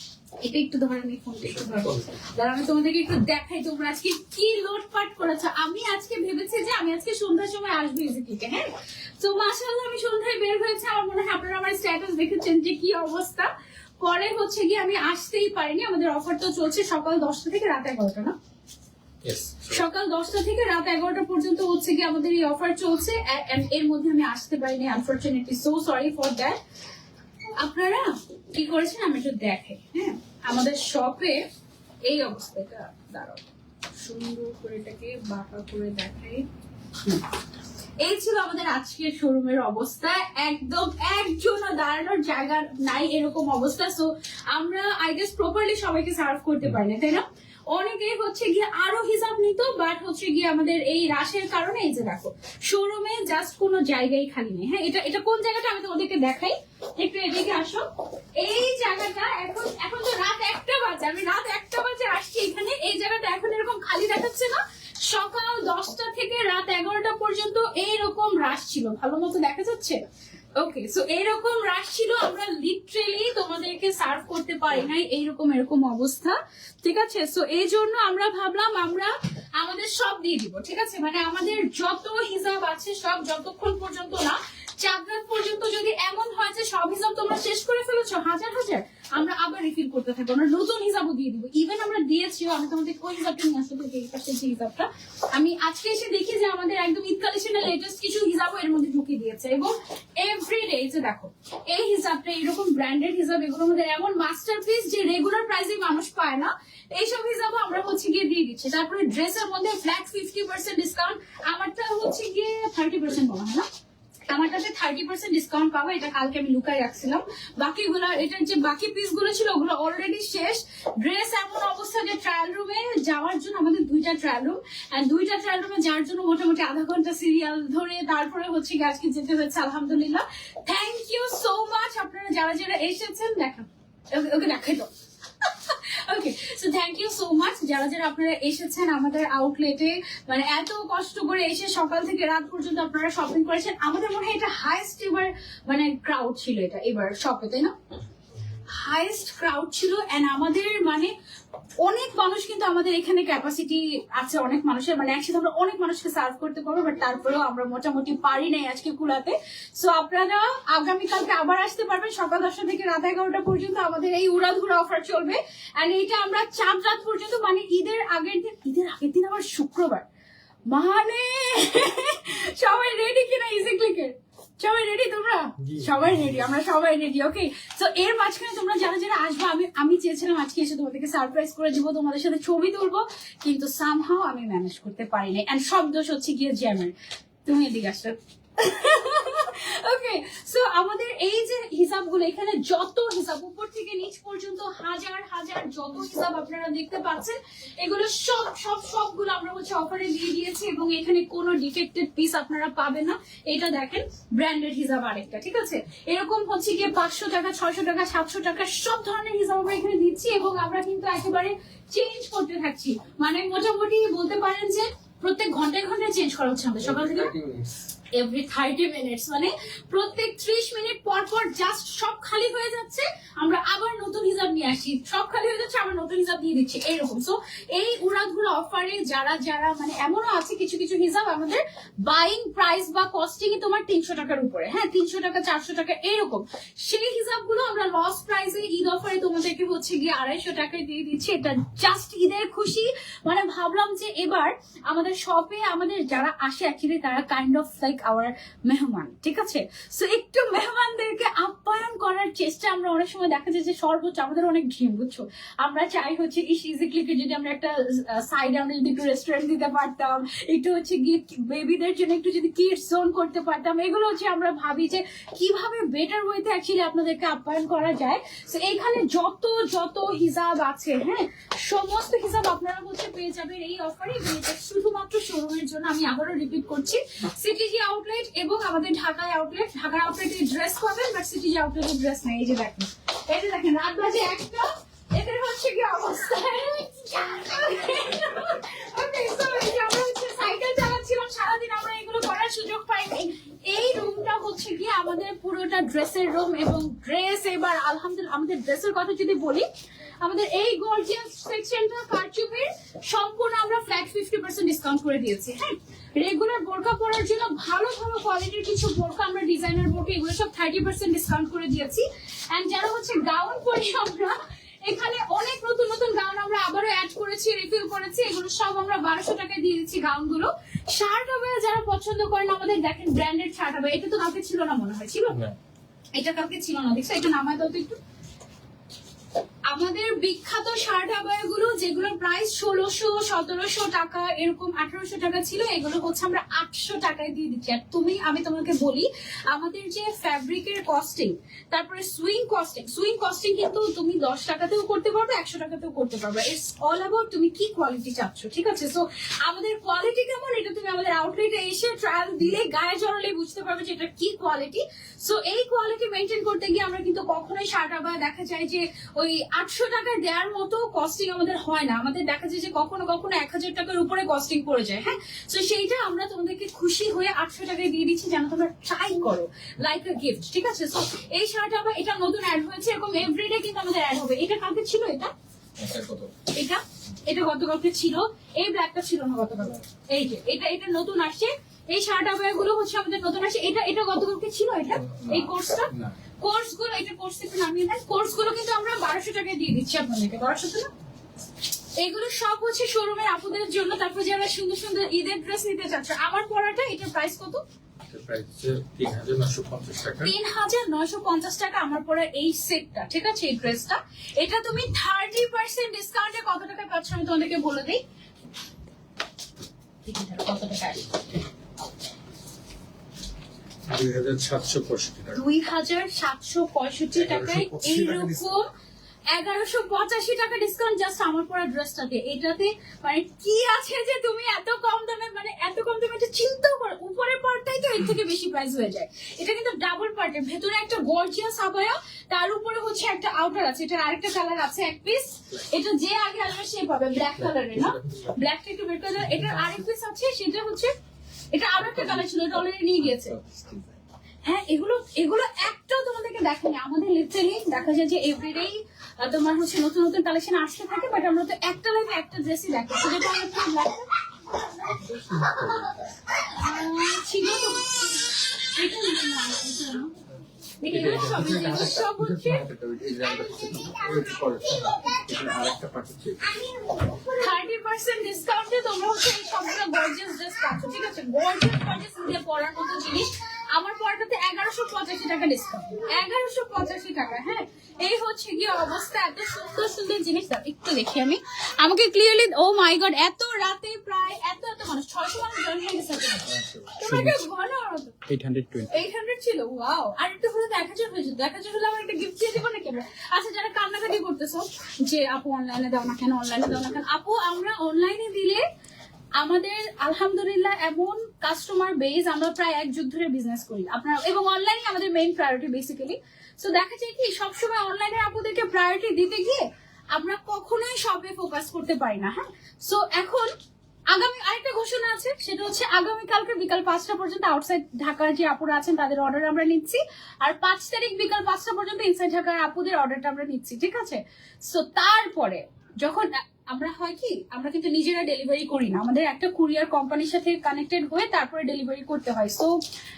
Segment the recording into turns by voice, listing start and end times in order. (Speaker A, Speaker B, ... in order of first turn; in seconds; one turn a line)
Speaker A: 0.4-8.7
Speaker B: 1.4-2.3
Speaker A: 9.2-18.4
Speaker B: 19.2-19.8
Speaker A: 19.7-26.6
Speaker A: 27.6-31.4
Speaker A: 32.1-33.5
Speaker A: 34.0-36.5
Speaker A: 38.0-57.9
Speaker A: 58.4-70.0
Speaker A: 70.6-113.7
Speaker A: 114.3-134.9
Speaker A: 135.4-147.7
Speaker A: 148.7-151.1
Speaker A: 151.8-170.1
Speaker A: 170.7-186.9
Speaker B: 175.6-176.5
Speaker A: 187.4-217.3
Speaker B: 216.8-217.8
Speaker A: 218.2-299.7
Speaker A: 300.2-325.4
Speaker B: 325.3-325.6
Speaker A: 326.2-328.0
Speaker A: 329.7-375.3
Speaker B: 375.8-376.4
Speaker A: 376.5-390.9
Speaker B: 385.0-386.1
Speaker A: 392.0-397.6
Speaker B: 398.1-400.4
Speaker A: 400.2-408.0
Speaker A: 410.1-411.2
Speaker B: 413.9-415.4
Speaker A: 415.3-418.7
Speaker B: 417.1-418.6
Speaker A: 419.3-440.9
Speaker B: 437.3-438.4
Speaker B: 439.1-439.8
Speaker A: 441.5-443.4
Speaker B: 441.8-442.4
Speaker B: 443.0-444.0
Speaker A: 444.4-454.1
Speaker B: 454.8-456.1
Speaker A: 456.5-460.2
Speaker A: 460.8-462.6
Speaker B: 460.9-466.6
Speaker A: 463.4-465.2
Speaker A: 466.6-488.2
Speaker B: 486.4-487.5
Speaker B: 488.3-489.1
Speaker A: 488.9-498.6
Speaker A: 499.4-513.5
Speaker A: 514.1-532.7